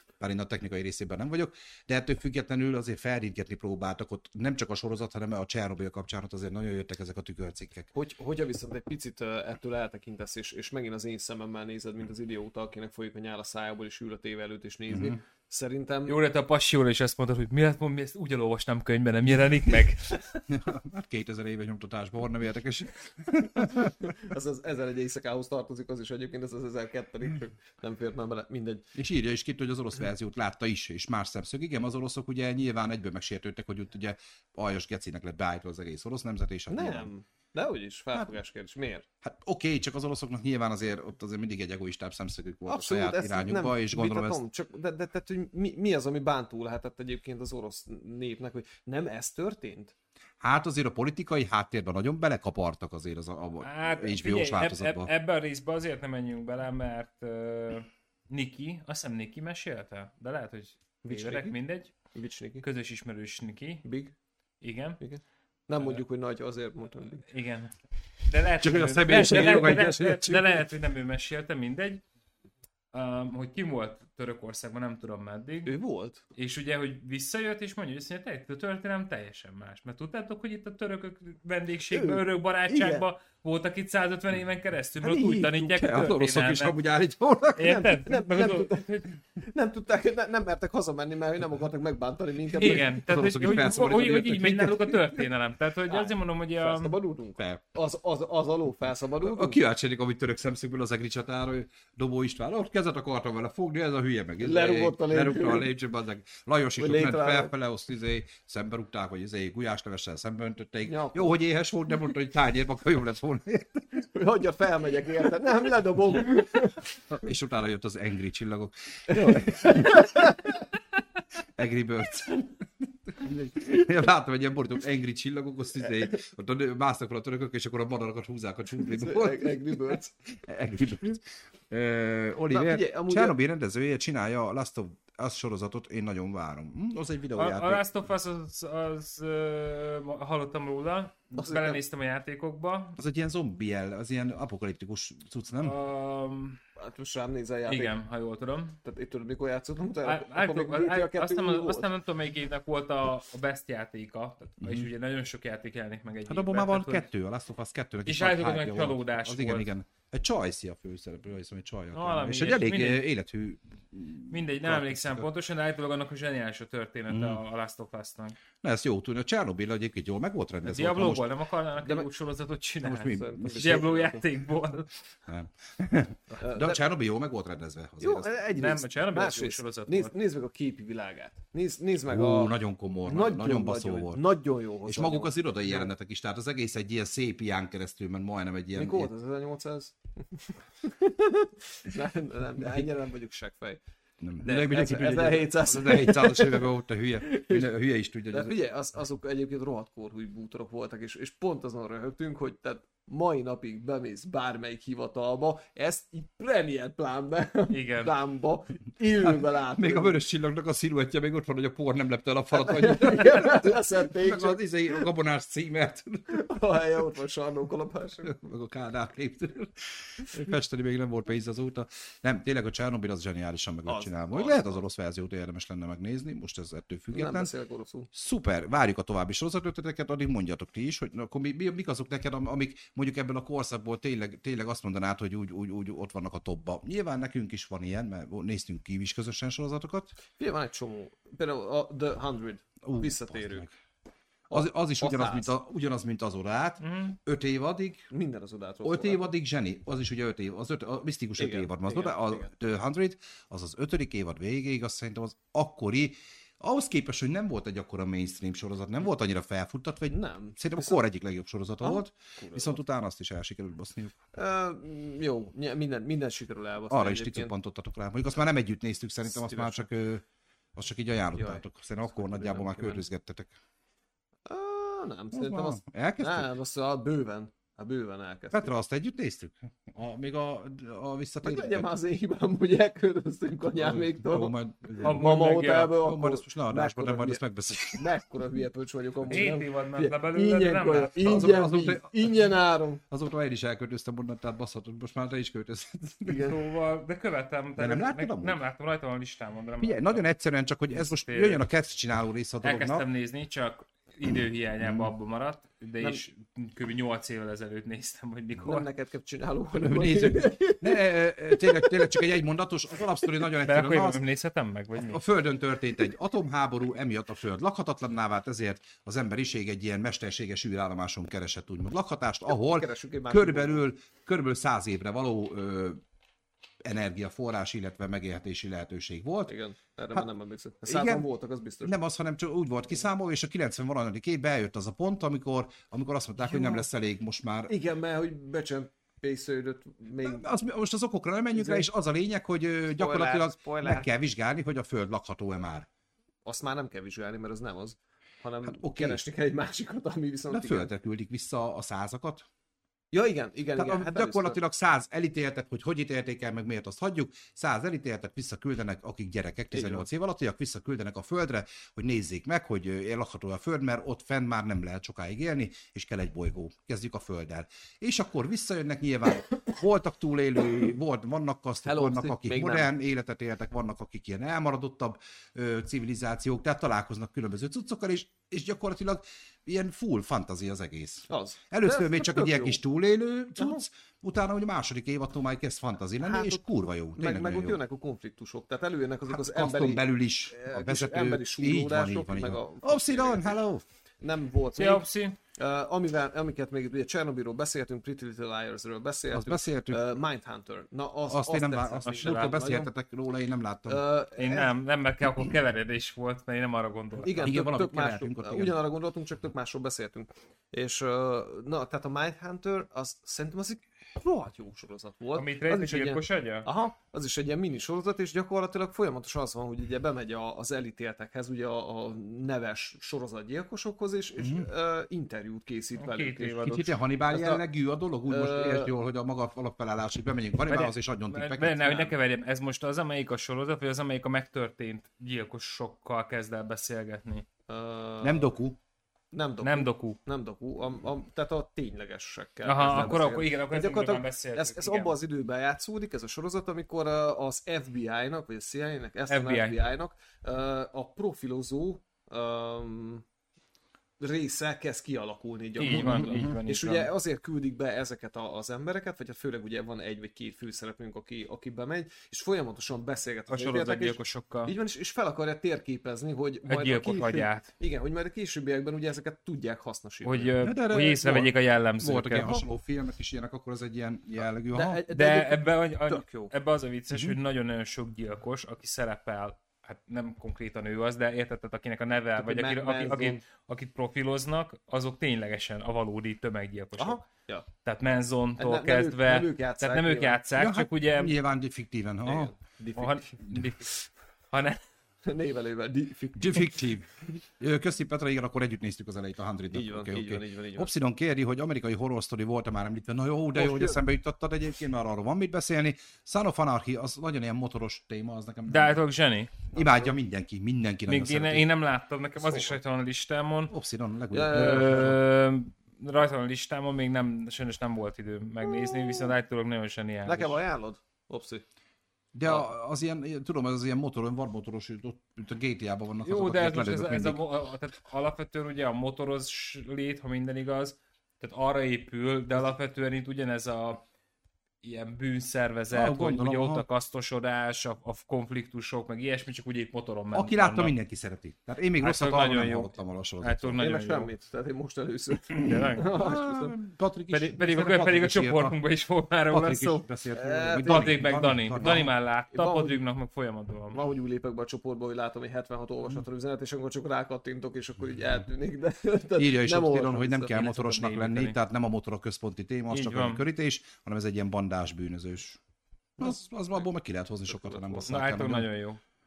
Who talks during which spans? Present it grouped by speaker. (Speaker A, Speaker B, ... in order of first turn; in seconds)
Speaker A: 0.2-7.9, 14.9-15.2, 20.5-24.1, 28.9-37.1, 39.2-44.4, 50.4-55.1, 68.6-70.6, 85.0-87.8, 92.6-95.2, 99.2-114.0, 117.1-120.3, 121.6-137.8, 143.0-145.8, 154.6-154.9, 156.3-165.3, 167.1-167.4, 168.6-171.3, 172.8-173.9, 175.3-178.3, 182.1-184.2, 184.8-189.1, 192.6-192.9, 194.2-198.6, 209.2-216.4, 218.2-227.5, 228.1-240.2, 242.8-243.7, 244.5-248.1, 248.8-264.2, 266.9-270.2, 270.8-273.5, 275.3-276.5, 278.5-281.9, 283.8-285.3, 286.0-288.1, 289.2-289.5, 291.2-292.5, 293.1-296.5, 297.8-298.6, 299.8-303.1, 304.8-305.1, 309.8-314.2, 315.0-326.0, 326.9-329.5, 330.9-331.3, 331.8-337.7, 340.2-345.9, 348.7-349.2, 350.5-352.5, 353.8-387.8, 389.3-393.8, 399.3-400.0, 401.3-404.0, 407.4-408.8, 424.4-424.7, 426.6-432.1, 438.2-438.8, 455.9-456.6, 470.6-475.0, 477.1-477.4, 490.6-492.5, 496.4-509.0, 509.7-511.7, 513.7-515.2, 522.3-527.4, 535.9-536.9, 540.3-543.8, 546.1-548.8, 549.5-552.1, 559.4-565.6, 566.2-568.7
Speaker B: 7.9-16.2, 23.6-28.9, 36.7-39.1, 42.7-49.9, 61.0-61.6, 62.1-62.6, 63.8-64.1, 65.0-67.3, 69.1-69.8, 75.7-76.2, 81.9-83.0, 87.6-93.0, 95.9-99.6, 104.4-105.7, 106.8-107.5, 110.9-111.4, 114.1-117.0, 119.1-120.6, 128.8-130.1, 132.5-133.3, 141.4-141.8, 146.8-148.0, 148.8-151.9, 171.8-172.1, 173.1-174.2, 176.4-176.8, 178.0-182.5, 183.1-185.9, 188.7-193.8, 194.4-197.7, 198.3-210.2, 212.5-215.1, 216.3-218.4, 223.9-224.8, 227.1-228.1, 240.4-243.7, 244.5-245.5, 248.1-249.3, 251.4-252.5, 260.1-261.0, 261.8-262.8, 264.3-267.5, 269.3-269.9, 271.4-273.0, 274.5-278.7, 281.4-293.0, 296.3-296.6, 308.6-312.4, 322.5-323.9, 329.5-332.0, 336.5-336.9, 337.7-340.5, 341.5-341.9, 342.9-344.1, 346.5-350.9, 353.1-354.6, 359.7-360.1, 371.8-372.9, 381.3-382.8, 383.6-383.8, 386.2-386.6, 387.2-393.6, 394.2-402.9, 403.9-404.7, 407.2-427.6, 428.3-428.9, 437.7-438.6, 439.3-453.2, 454.2-470.5, 474.7-476.5, 482.4-483.4, 487.0-487.7, 488.6-490.4, 492.2-493.3, 495.2-496.9, 499.7-500.9, 503.6-504.0, 509.7-510.1, 512.4-512.8, 514.3-515.1, 518.7-519.3, 520.3-521.6, 543.8-546.8, 550.3-551.2, 551.8-553.0, 553.9-560.6, 567.5-568.1
Speaker C: 16.1-20.4, 53.6-61.9, 62.6-63.9, 64.6-65.0, 67.3-72.0, 72.9-75.7, 76.4-86.8, 87.6-89.1, 92.6-97.0, 137.4-143.0, 145.6-146.6, 147.7-148.8, 150.1-157.1, 158.1-159.7, 161.9-163.0, 164.3-168.4, 170.7-174.9, 178.5-180.1, 207.7-208.1, 246.8-247.2, 285.0-285.9, 289.3-291.4, 296.4-300.2, 300.9-301.6, 302.6-308.9, 313.6-315.2, 394.8-395.4, 402.0-402.6, 404.4-407.4, 415.4-416.7, 426.0-426.9, 430.7-437.5, 439.6-440.2, 442.6-445.1, 449.3-449.8, 455.8-457.1, 463.5-464.7, 466.7-467.7, 470.2-472.6, 475.1-487.3, 487.8-491.3, 492.9-494.0, 494.5-494.8, 508.7-509.6, 511.1-513.7, 514.5-520.6, 526.2-534.0, 534.8-540.9, 542.0-544.3, 545.6-546.1, 547.3-550.0, 550.8-554.0, 560.5-561.6, 562.9-563.4, 568.1-569.0